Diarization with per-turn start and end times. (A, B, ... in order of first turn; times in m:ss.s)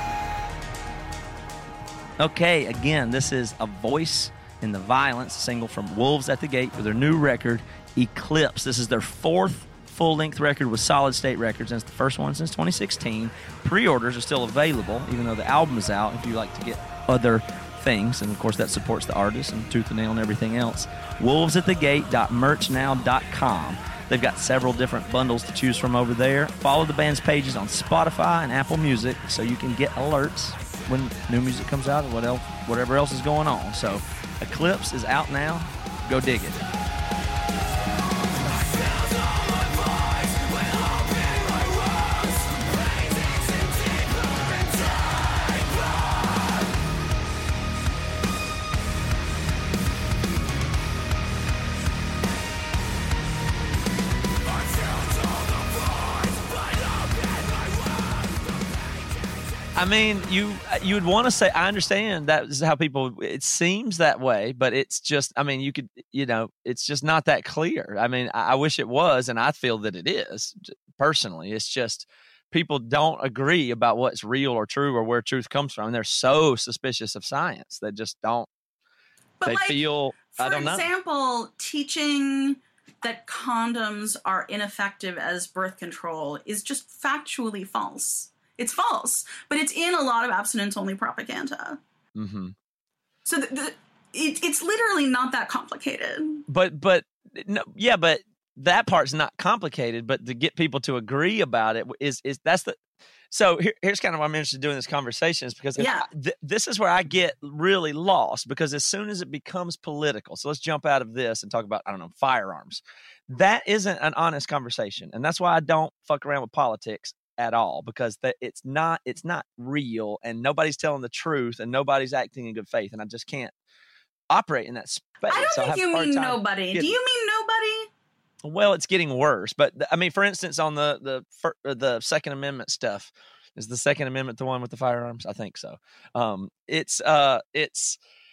0:02.2-0:36.6 A
0:41.1-0:41.5 A
0:59.8-1:18.5 A
1:19.4-1:31.8 B
1:19.4-1:20.8 A
1:32.2-1:32.5 A
1:33.2-1:36.4 B
1:36.5-1:42.8 A
1:43.3-2:03.5 A
1:45.8-1:46.0 B
2:04.3-2:06.9 A
2:05.3-2:07.9 B
2:08.4-2:18.0 A